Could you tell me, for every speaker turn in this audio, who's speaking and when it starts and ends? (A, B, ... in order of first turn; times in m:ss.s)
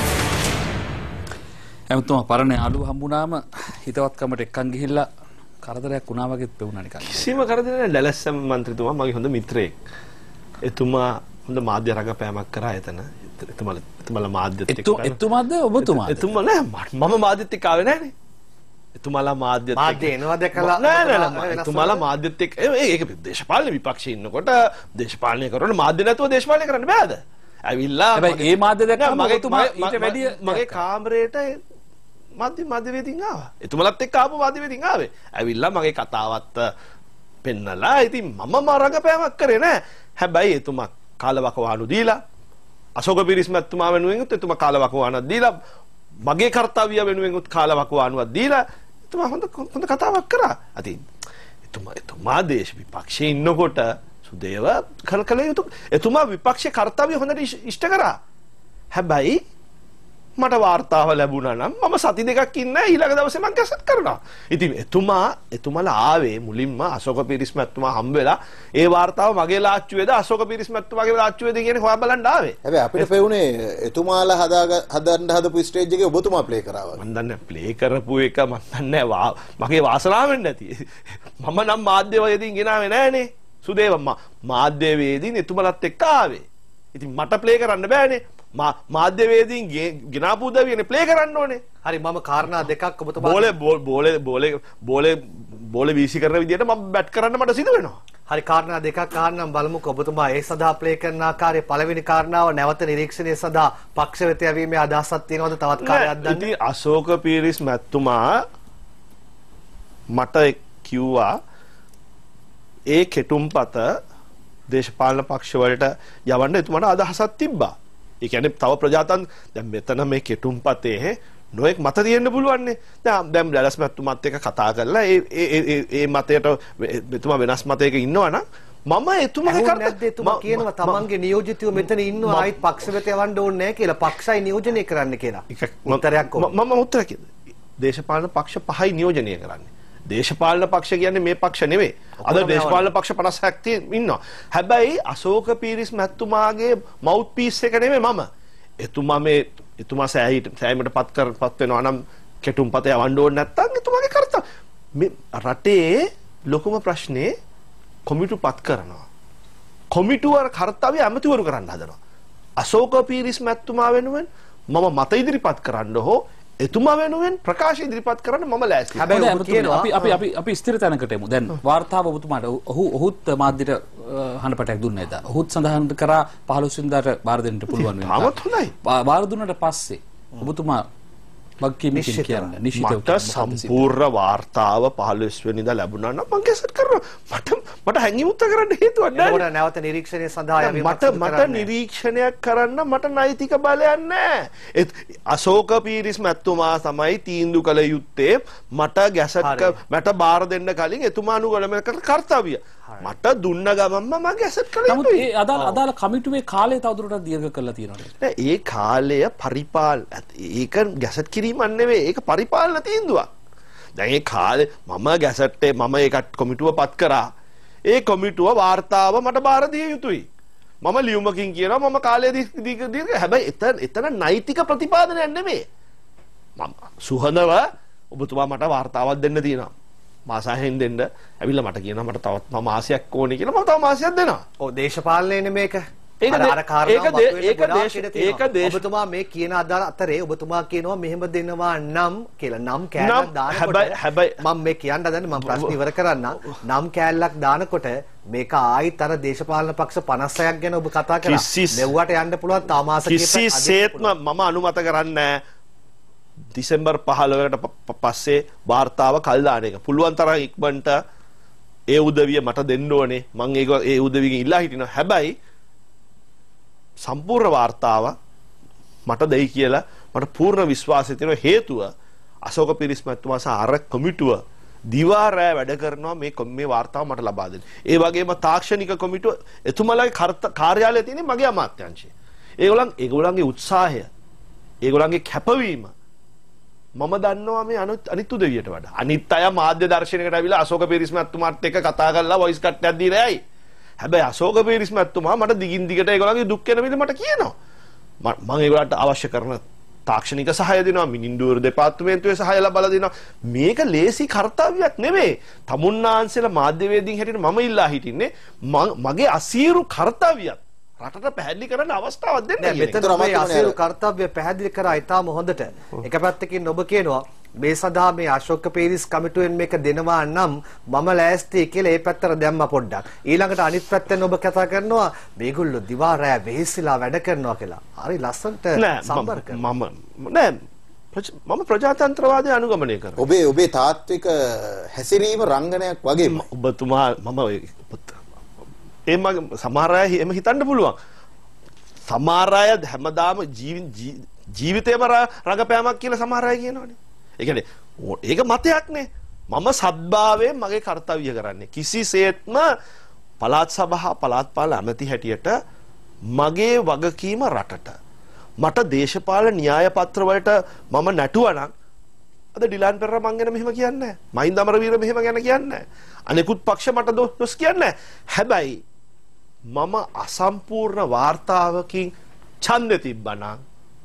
0:01.9-0:05.1 A
0:05.6-0:07.3 A
0:07.0-0:09.8 B
0:10.6-0:15.2 B
0:14.7-0:16.4 A
0:15.8-0:18.1 B
0:19.0-0:31.6 B
0:19.8-0:22.0 C
0:28.2-0:30.8 A
0:32.4-0:36.7 B
0:37.4-0:42.2 B
0:43.0-0:45.6 B
0:46.3-0:51.0 B
0:51.7-0:58.2 B
0:58.9-0:59.4 B
1:00.4-1:13.1 B
1:12.6-1:17.0 D
1:17.0-1:31.6 B
1:31.8-1:33.6 C
1:33.2-1:38.0 B
1:38.3-1:46.5 C
1:45.8-1:48.4 B
1:50.1-1:51.4 B
1:52.9-1:53.9 B
1:54.7-2:11.1 B
2:09.4-2:16.5 C
2:11.8-2:12.5 B
2:15.5-2:28.3 B
2:22.2-2:22.9 C
2:28.8-2:34.4 B
2:35.0-2:37.3 B
2:38.1-2:39.0 B
2:39.9-2:42.0 B
2:42.6-2:49.2 B
2:49.0-2:49.9 C
2:49.1-3:00.8 A
2:57.8-2:58.7 B
3:01.6-3:03.9 A
3:01.9-3:02.5 C
3:02.8-3:09.5 B
3:09.1-3:11.7 C
3:10.6-3:25.3 B
3:19.4-3:19.8 C
3:24.9-3:28.1 A
3:28.2-3:33.3 B
3:34.0-3:37.3 B
3:37.9-3:40.3 B
3:40.8-3:45.6 B
3:46.6-3:49.7 B
3:50.3-3:54.4 B
3:54.6-4:14.1 C
3:56.2-3:58.8 B
4:03.0-4:04.4 B
4:11.2-4:11.9 B
4:13.0-4:15.4 B
4:16.6-4:21.0 B
4:21.9-4:25.3 B
4:27.0-4:28.2 B
4:29.1-4:31.9 B
4:32.4-4:44.1 B
4:44.8-4:45.9 B
4:47.0-4:53.4 B
4:54.0-4:57.5 B
4:58.2-5:12.9 B
5:12.6-5:29.6 C
5:12.9-5:13.8 D
5:28.8-5:30.6 B
5:31.1-5:33.2 B
5:33.2-5:36.4 D
5:36.3-5:38.2 B
5:39.1-5:41.0 B
5:42.1-5:52.7 B
5:53.4-5:55.6 B
5:56.3-5:57.9 B
5:58.6-6:01.7 B
6:02.6-6:08.8 B
6:09.7-6:12.1 B
6:12.6-6:13.6 B